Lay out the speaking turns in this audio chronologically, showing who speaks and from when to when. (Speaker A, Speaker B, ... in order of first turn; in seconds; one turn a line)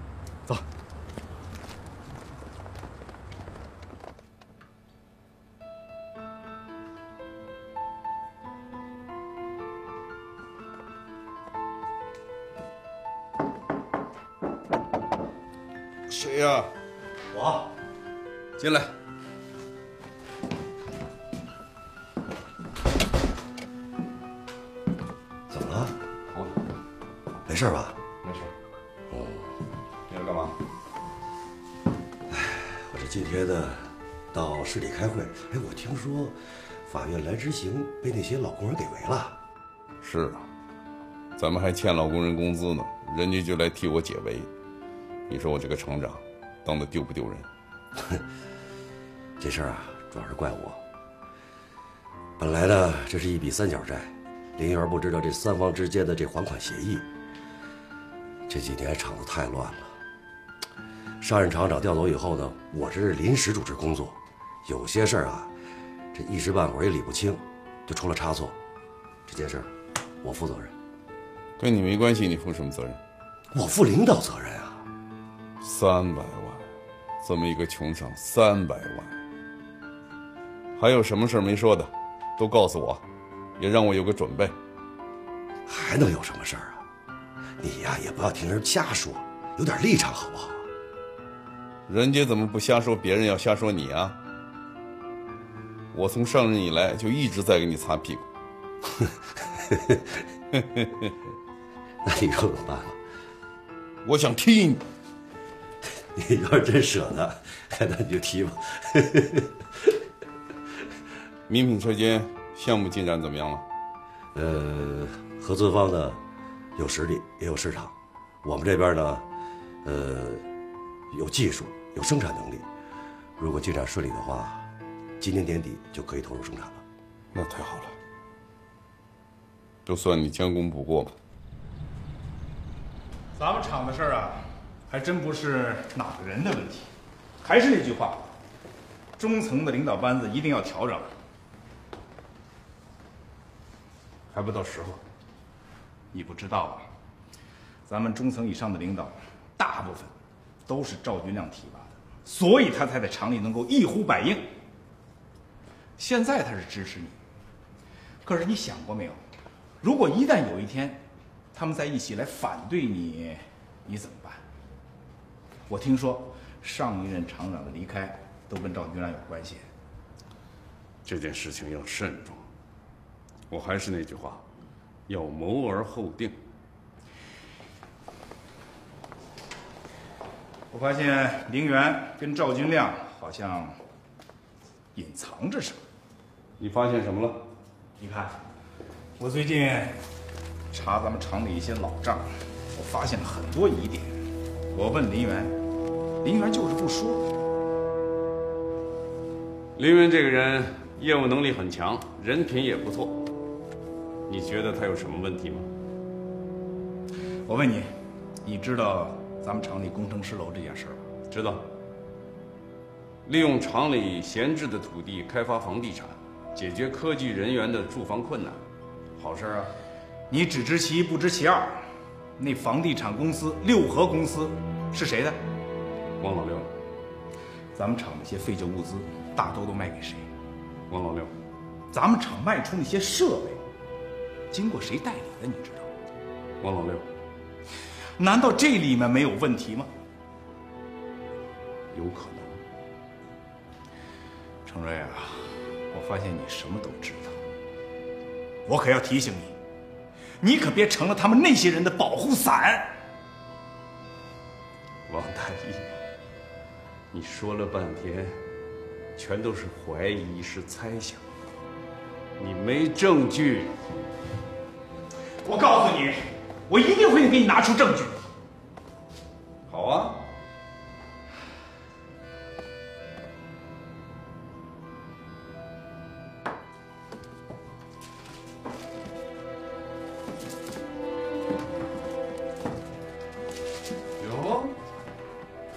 Speaker A: 16.1-16.7
Speaker B: 17.3-17.7
Speaker A: 18.6-18.9
Speaker B: 25.5-25.9
Speaker A: 26.3-26.6
Speaker B: 27.5-28.0
Speaker A: 28.2-28.5
Speaker B: 29.1-29.5
Speaker A: 30.1-30.6
Speaker B: 32.3-39.4
Speaker A: 40.0-40.5
Speaker A: 41.4-44.5
Speaker A: 45.3-47.5
Speaker B: 49.4-50.8
Speaker B: 52.4-57.1
Speaker B: 58.5-60.0
Speaker B: 61.2-65.5
Speaker B: 66.1-68.6
Speaker B: 69.3-69.7
Speaker B: 70.2-70.7
Speaker A: 71.6-73.0
Speaker B: 73.5-74.8
Speaker A: 75.6-76.6
Speaker A: 77.2-79.2
Speaker A: 80.8-83.0
Speaker A: 83.6-84.5
Speaker B: 85.7-86.8
Speaker B: 87.6-90.7
Speaker A: 91.9-94.2
Speaker A: 95.9-98.3
Speaker B: 99.7-100.0
Speaker A: 100.5-101.1
Speaker B: 102.0-103.0
Speaker A: 104.0-104.8
Speaker B: 106.1-110.0
Speaker A: 111.5-113.6
Speaker B: 114.3-116.2
Speaker B: 116.8-119.2
Speaker B: 119.8-120.5
Speaker B: 121.1-122.7
Speaker B: 123.4-124.7
Speaker B: 125.2-126.8
Speaker A: 127.3-127.9
Speaker A: 129.9-131.1
Speaker C: 133.4-136.9
Speaker C: 137.4-138.3
Speaker C: 139.2-141.1
Speaker A: 144.3-145.0
Speaker C: 146.1-146.9
Speaker C: 147.9-150.1
Speaker C: 150.7-154.5
Speaker C: 156.0-157.2
Speaker C: 158.2-159.2
Speaker C: 159.8-161.0
Speaker C: 161.5-164.4
Speaker C: 165.7-169.7
Speaker A: 171.1-172.5
Speaker A: 173.5-174.4
Speaker A: 175.1-176.4
Speaker C: 180.7-183.8
Speaker C: 184.9-185.8
Speaker A: 186.6-187.4
Speaker C: 188.0-188.4
Speaker C: 189.2-190.0
Speaker C: 190.7-194.2
Speaker C: 194.7-195.6
Speaker C: 196.2-197.3
Speaker A: 199.8-203.3
Speaker A: 204.3-205.7
Speaker C: 207.5-207.9
Speaker C: 208.4-211.0
Speaker A: 211.3-211.7
Speaker A: 213.3-218.6
Speaker A: 219.2-219.7
Speaker C: 220.3-221.8
Speaker C: 222.4-225.4
Speaker A: 226.2-226.7
Speaker C: 227.8-230.3
Speaker A: 230.9-231.3
Speaker C: 231.9-233.6
Speaker C: 234.5-235.9
Speaker A: 236.6-237.1
Speaker C: 238.2-239.9
Speaker A: 241.9-242.6
Speaker C: 244.7-247.4
Speaker C: 248.7-249.6
Speaker C: 250.4-252.9
Speaker A: 255.1-255.9
Speaker A: 257.1-258.4
Speaker A: 259.2-261.2
Speaker A: 262.4-263.7
Speaker C: 265.4-268.2
Speaker A: 269.7-270.2
Speaker A: 284.2-284.8